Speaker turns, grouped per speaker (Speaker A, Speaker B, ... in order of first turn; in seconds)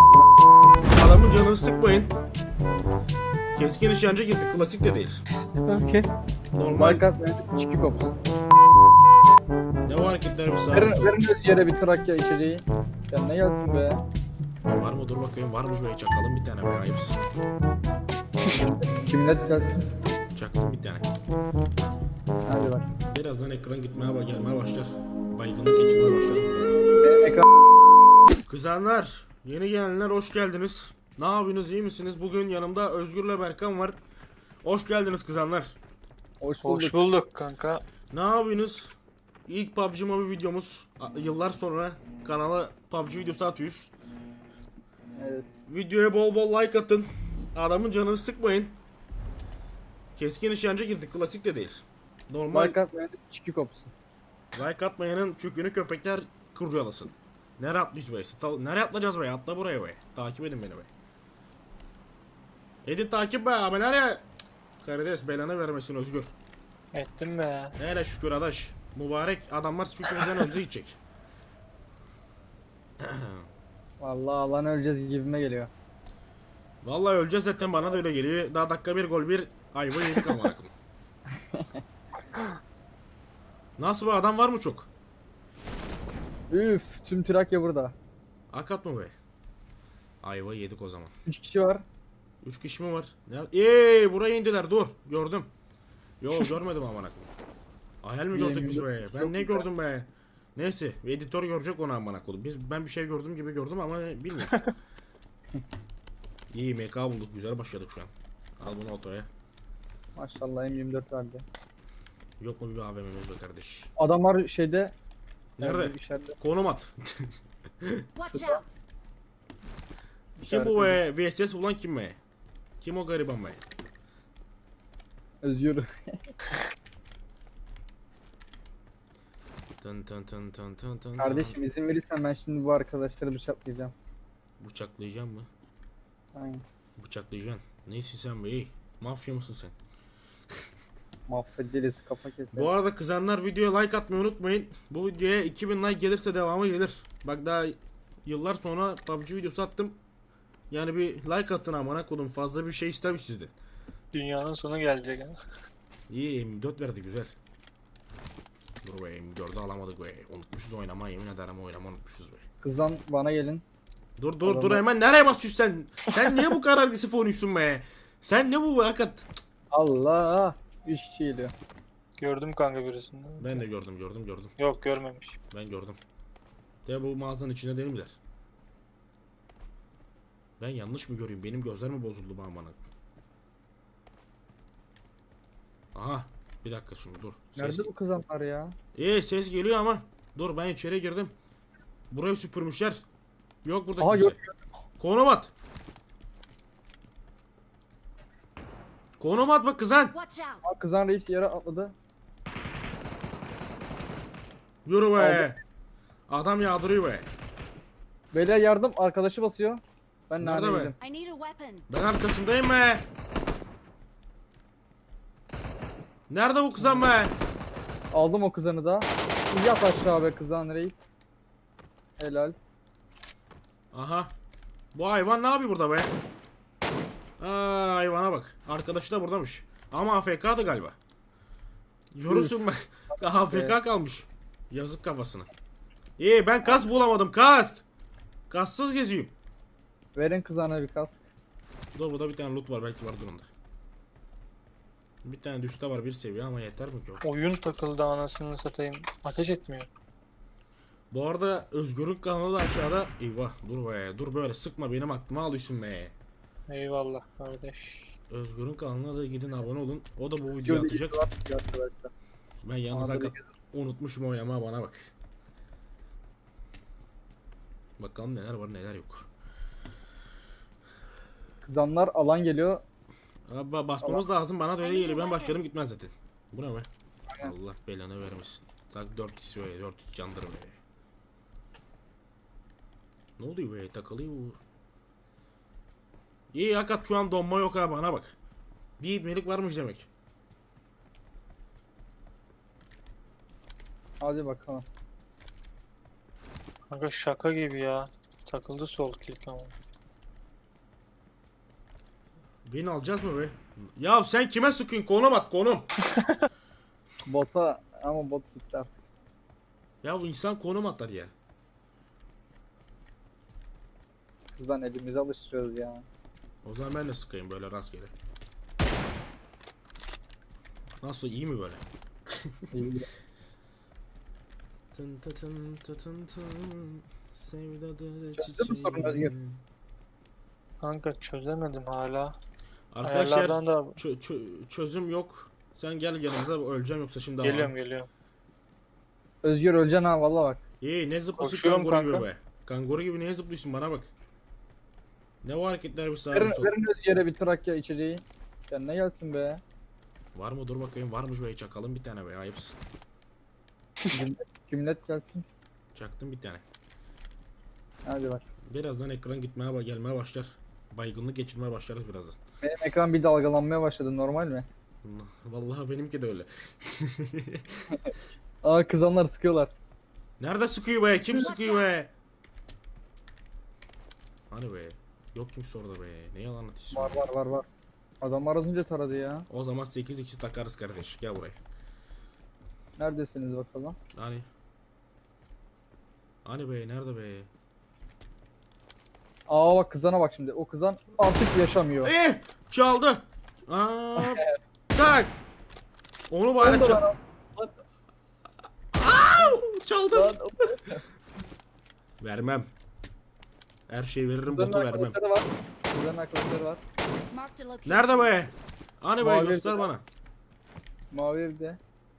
Speaker A: 0.9-2.1, 3.5-5.2, 6.5-7.0, 9.8-11.2, 14.7-17.2, 20.4-21.1, 23.1-26.8, 28.5-34.0, 34.6-35.8, 38.1-39.0, 39.5-43.9, 45.7-48.8, 50.2-52.8, 54.5-60.9, 62.8-64.2, 64.8-66.3, 67.8-71.0, 73.0-73.5, 76.8-80.7, 83.8-84.9, 88.5-89.1, 90.2-91.1, 92.4-95.5, 96.2-97.3, 98.0-104.7, 106.5-109.3, 112.4-113.9, 115.6-117.3, 120.5-122.2, 122.8-123.6, 129.8-131.6, 134.6-135.5, 137.0-139.8, 142.5-150.0, 150.7-153.5, 156.1-157.3, 158.8-162.4, 164.2-169.3, 173.4-174.5, 175.5-176.0, 176.8-178.2, 180.6-182.8, 185.9-187.9, 188.9-191.3, 192.1-193.0, 193.6-194.4, 195.0-195.5, 199.2-200.2, 204.8-205.6, 206.3-207.3, 210.4-210.9, 211.9-213.1, 216.3-217.3, 223.9-224.3, 224.9-226.1, 227.4-231.0, 232.1-235.5, 236.2-237.8, 238.5-239.3, 241.9-243.5, 245.2-247.2, 251.1-256.1, 258.3-261.2, 262.6-265.1, 268.0-269.3, 273.5-276.9, 277.4-280.8, 283.4-284.6, 286.5-288.4, 289.0-290.1, 302.7-305.9, 310.0-311.3, 316.6-318.1, 321.0-321.8, 324.9-329.6, 332.9-337.7, 340.8-344.1, 345.4-346.7, 350.4-352.8, 355.9-356.6, 358.7-362.4, 365.0-367.7, 370.4-372.1, 374.5-377.3, 379.5-381.6, 384.1-384.5, 386.4-387.5, 392.0-395.3, 396.3-397.0, 398.9-400.4, 402.2-402.7, 403.9-405.2, 407.9-410.0
Speaker B: 5.6-6.1, 36.6-37.8, 66.9-67.8, 154.1-155.4, 172.2-173.7, 174.6-175.4, 247.2-249.9, 256.7-258.1, 296.9-299.7, 330.8-332.4, 333.0-334.0, 337.4-338.1, 341.4-342.3
Speaker C: 6.7-8.2, 10.7-14.0, 18.5-19.8, 22.5-22.9, 27.0-27.4, 36.4-37.1, 45.2-45.5, 52.5-53.9, 74.0-75.7, 86.5-88.0, 91.2-91.8, 98.3-99.7, 110.2-111.5, 114.0-114.9, 115.6-116.4, 120.4-121.0, 125.4-126.2, 131.2-133.9, 136.3-136.6, 141.3-142.7, 162.6-163.6, 164.4-164.8, 169.7-171.5, 187.6-188.8, 194.0-194.5, 200.6-201.9, 205.2-205.6, 208.3-210.9, 216.8-217.1, 218.1-221.0, 222.2-222.6, 232.3-232.6, 233.3-233.8, 240.2-241.2, 260.6-262.1, 262.9-263.4, 271.6-272.8, 294.2-294.9, 307.3-308.9, 314.6-316.1, 322.7-323.1, 328.4-329.3, 339.4-340.6, 346.3-349.6, 354.1-355.5, 358.1-358.5, 362.6-364.7, 368.6-369.7, 376.9-377.7, 378.2-379.5, 383.0-384.0, 389.5-392.1, 396.6-397.2, 400.1-401.0, 404.5-406.8, 409.2-409.9, 411.1-411.8
Speaker D: 118.2-118.8, 200.1-200.6, 211.0-211.9, 274.8-275.6, 371.4-371.9, 407.3-408.3